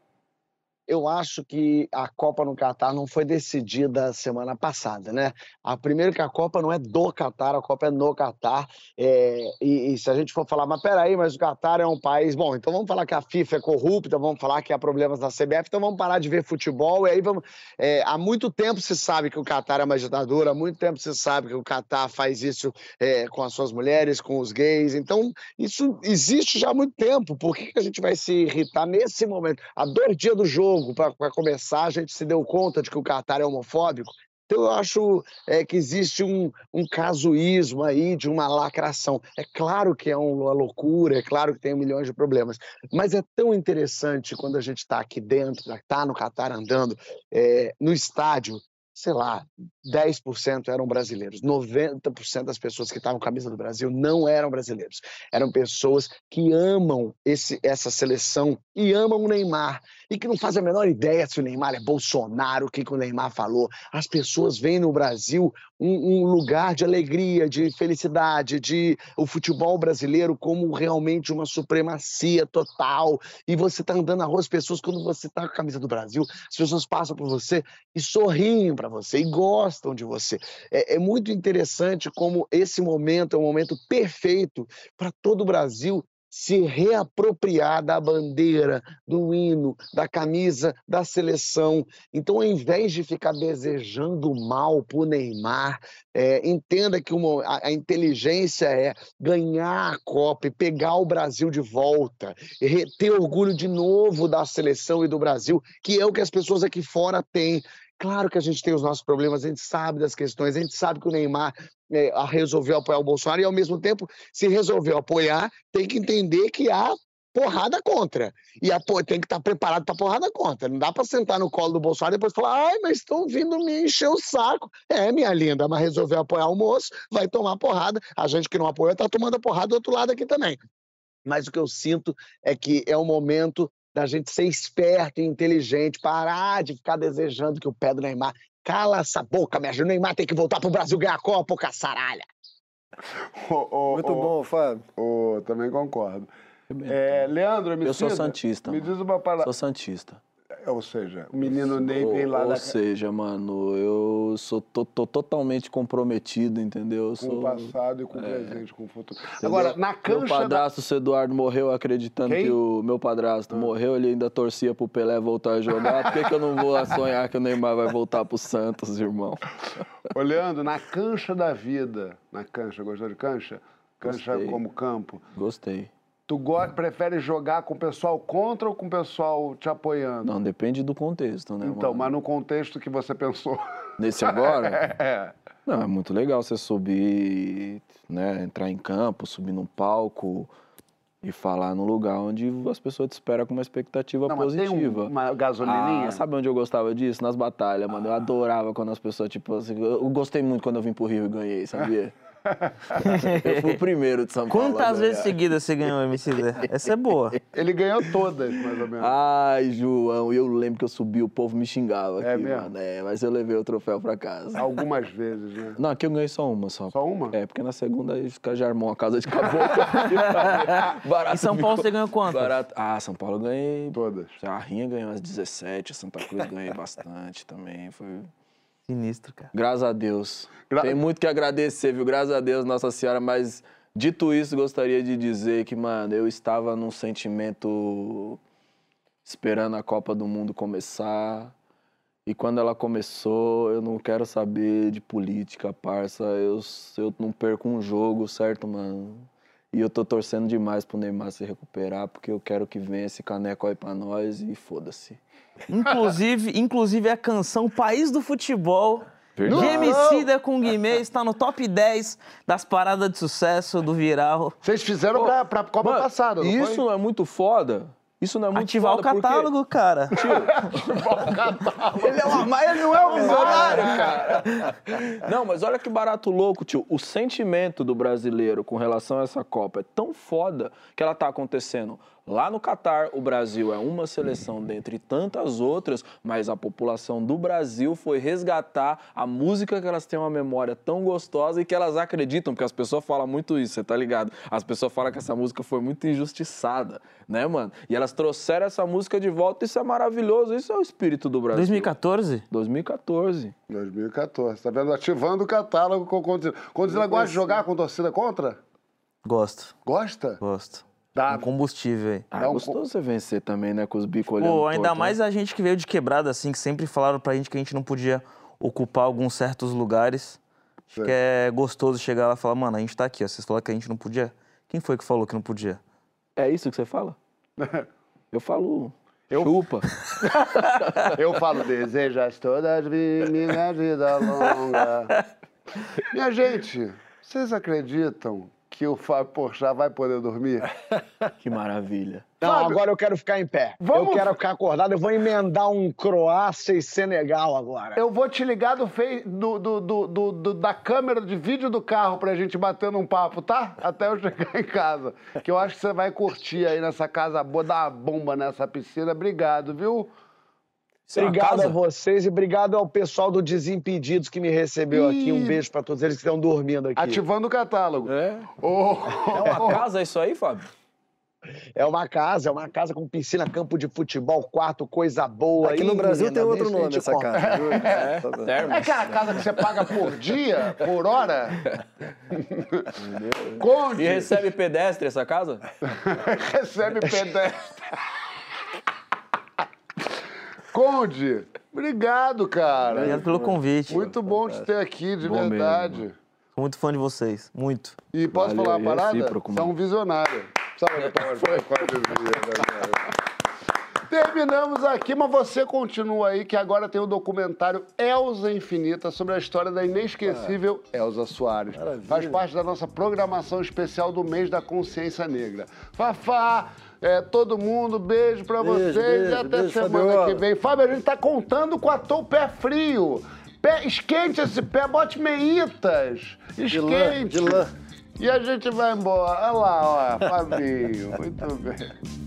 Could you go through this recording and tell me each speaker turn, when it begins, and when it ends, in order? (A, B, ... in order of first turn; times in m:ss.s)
0:00.9-2:10.6 A
2:11.3-2:22.2 A
2:23.4-2:24.4 B
2:23.9-2:24.8 C
2:25.0-2:26.3 B
2:26.7-2:27.3 D
2:26.9-2:29.5 B
2:27.8-2:30.2 D
2:30.6-2:32.8 B
2:31.4-2:38.6 D
2:37.2-2:40.6 B
2:39.4-2:49.5 D
2:42.3-2:42.6 B
2:50.1-2:55.2 B
2:54.0-2:54.6 D
2:55.3-2:55.9 D
2:56.3-3:00.3 B
3:00.2-3:02.2 D
3:01.6-3:03.6 B
3:04.0-3:04.8 D
3:04.2-3:05.3 B
3:05.7-3:10.5 D
3:11.2-3:22.1 D
3:14.3-3:16.2 B
3:23.0-3:23.8 E
3:23.4-3:25.4 D
3:24.5-3:27.4 E
3:27.5-3:29.1 B
3:29.0-3:34.7 D
3:32.2-3:32.7 B
3:34.6-3:35.8 B
3:35.8-3:48.3 D
3:36.9-3:37.4 B
3:41.3-3:42.6 E
3:43.9-3:44.4 B
3:48.9-3:49.5 E
3:49.5-3:58.4 D
3:50.7-3:51.0 B
3:59.2-4:01.5 D
4:02.3-4:15.2 D
4:15.7-4:24.6 E
4:19.4-4:20.0 D
4:19.5-4:20.3 B
4:24.6-4:26.8 B
4:25.1-4:29.5 D
4:28.5-4:30.2 E
4:30.1-4:31.3 D
4:30.2-4:34.5 B
4:32.0-5:01.9 D
4:33.3-4:33.7 E
5:01.5-5:02.4 E
5:02.5-5:03.5 D
5:03.7-5:08.6 B
5:09.2-5:09.8 E
5:09.9-5:10.4 B
5:10.4-5:12.3 E
5:11.2-5:11.5 B
5:12.3-5:15.2 D
5:12.4-5:12.8 B
5:14.4-5:20.4 E
5:20.9-5:25.8 E
5:26.4-5:27.2 D
5:27.6-5:27.9 B
5:28.3-5:29.9 D
5:29.3-5:29.7 B
5:31.2-5:35.1 B
5:36.0-5:40.7 B
5:41.4-5:42.3 D
5:42.4-5:48.0 A
5:42.4-5:42.8 B
5:43.8-5:44.3 B
5:48.0-6:00.1 B
6:01.1-6:01.8 D
6:01.2-6:07.2 A
6:04.9-6:05.6 B
6:07.0-6:09.8 B
6:08.1-6:08.5 D
6:09.3-6:10.7 D
6:09.4-6:09.7 A
6:11.8-6:17.6 A
6:15.6-6:18.5 C
6:17.4-6:18.1 B
6:17.8-6:20.1 D
6:18.6-6:21.7 B
6:22.3-6:22.9 B
6:23.0-6:25.7 D
6:23.6-6:24.4 B
6:25.8-6:28.0 B
6:30.7-6:33.3 B
6:33.0-6:34.1 E
6:33.9-6:36.2 B
6:34.3-6:34.6 C
6:35.2-6:36.0 D
6:36.6-6:38.0 E
6:38.1-6:43.1 B
6:38.3-6:39.7 D
6:41.0-6:42.4 D
6:44.1-7:07.6 B
6:50.2-6:50.6 C
6:51.7-6:52.4 C
6:58.6-7:00.4 C
7:06.7-7:07.7 C
7:08.2-7:12.0 B